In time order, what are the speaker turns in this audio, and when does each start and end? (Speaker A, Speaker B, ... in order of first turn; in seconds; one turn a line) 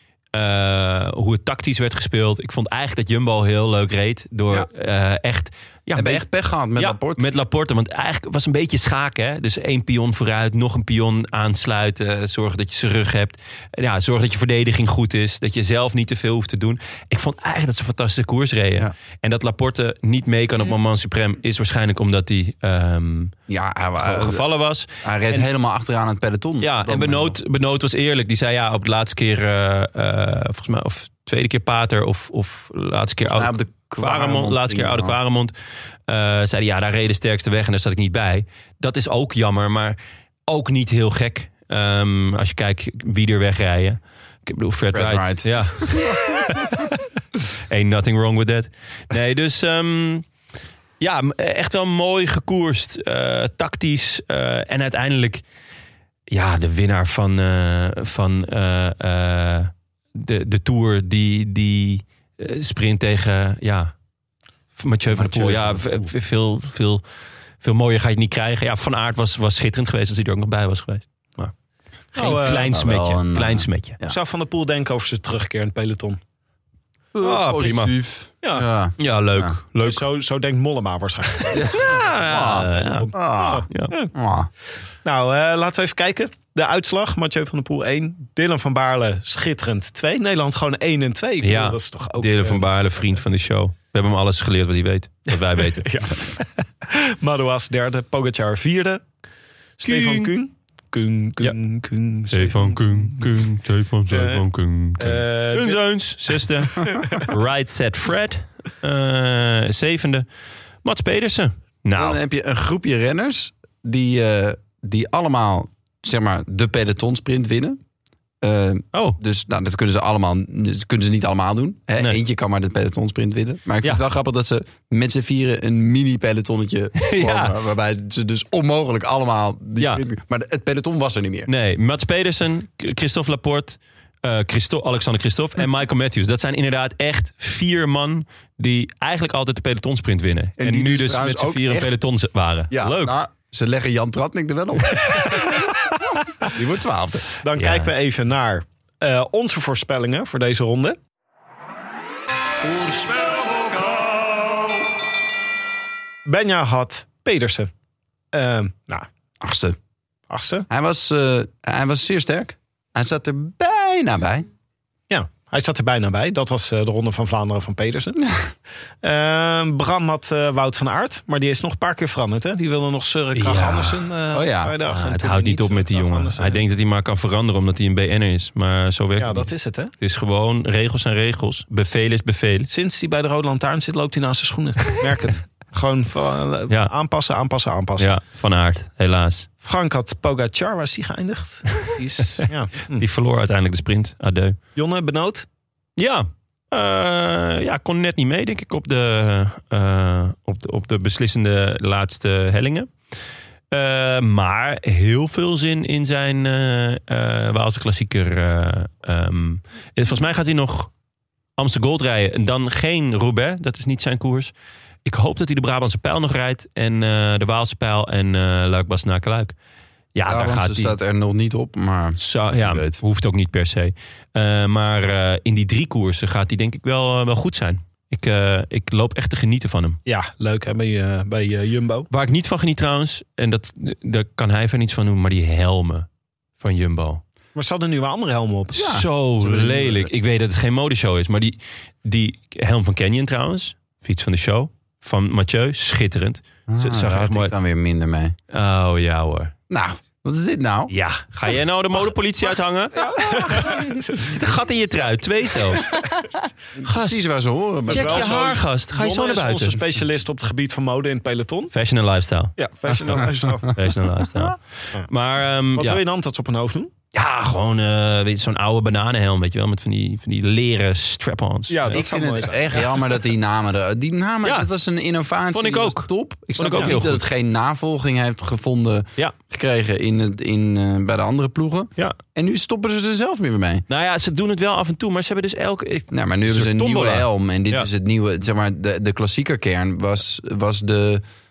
Speaker A: 0.3-6.2
Speaker B: 5.9-7.3
Speaker A: 6.8-23.3
Speaker B: 23.5-24.4
Speaker A: 24.0-25.5
Speaker B: 25.0-27.4
Speaker A: 26.6-35.5
Speaker B: 33.2-35.1
Speaker A: 36.1-46.9
Speaker B: 44.9-46.2
Speaker A: 47.7-50.3
Speaker A: 51.0-55.4
Speaker A: 56.3-63.9
Speaker A: 64.8-67.0
Speaker B: 65.1-66.1
Speaker A: 67.6-71.5
Speaker C: 72.1-72.7
Speaker A: 72.1-74.0
Speaker B: 72.7-74.2
Speaker C: 74.0-76.2
Speaker B: 77.1-79.5
Speaker A: 77.2-78.0
Speaker A: 79.0-80.0
Speaker C: 79.8-84.1
Speaker B: 81.5-84.5
Speaker A: 81.6-83.2
Speaker A: 83.7-83.9
Speaker C: 85.0-92.7
Speaker A: 91.4-95.9
Speaker C: 95.3-99.0
Speaker A: 99.8-100.3
Speaker C: 99.8-103.4
Speaker A: 102.3-110.2
Speaker C: 104.1-104.4
Speaker C: 105.0-105.8
Speaker C: 106.3-107.2
Speaker A: 110.8-112.2
Speaker B: 111.9-117.8
Speaker B: 118.4-131.5
Speaker A: 118.9-119.2
Speaker A: 127.0-127.5
Speaker A: 129.8-130.0
Speaker A: 131.5-143.2
Speaker B: 140.6-141.9
Speaker B: 142.7-145.6
Speaker A: 145.1-146.0
Speaker B: 146.5-147.2
Speaker C: 147.4-151.0
Speaker A: 147.6-147.9
Speaker A: 152.6-154.3
Speaker C: 156.2-157.7
Speaker C: 158.3-159.1
Speaker B: 159.4-159.8
Speaker C: 160.3-160.7
Speaker B: 160.7-164.5
Speaker C: 165.1-168.3
Speaker C: 169.0-176.6
Speaker A: 173.3-174.0
Speaker B: 174.3-174.7
Speaker A: 174.9-182.7
Speaker C: 179.2-179.9
Speaker C: 182.7-188.1
Speaker A: 188.0-189.5
Speaker C: 189.6-193.0
Speaker A: 192.9-194.6
Speaker C: 194.8-195.4
Speaker A: 196.0-202.9
Speaker A: 203.7-210.9
Speaker A: 211.6-214.5
Speaker A: 215.0-219.5
Speaker A: 220.1-220.9
Speaker B: 220.2-223.0
Speaker A: 222.2-230.0
Speaker C: 230.1-232.1
Speaker A: 232.1-236.1
Speaker A: 236.6-237.2
Speaker C: 237.6-238.8
Speaker A: 238.7-247.5
Speaker B: 238.7-240.1
Speaker B: 246.7-248.3
Speaker A: 248.5-249.5
Speaker B: 249.7-250.9
Speaker A: 250.9-255.9
Speaker C: 253.1-254.3
Speaker B: 253.2-253.7
Speaker B: 256.8-258.4
Speaker A: 256.8-257.2
Speaker A: 257.9-259.8
Speaker C: 257.9-261.7
Speaker A: 261.7-262.5
Speaker C: 262.6-263.7
Speaker A: 263.1-266.0
Speaker C: 265.8-266.9
Speaker A: 267.1-272.0
Speaker C: 271.7-272.9
Speaker B: 271.9-283.8
Speaker A: 274.4-274.7
Speaker A: 275.5-277.2
Speaker A: 283.9-287.9
Speaker B: 286.1-291.2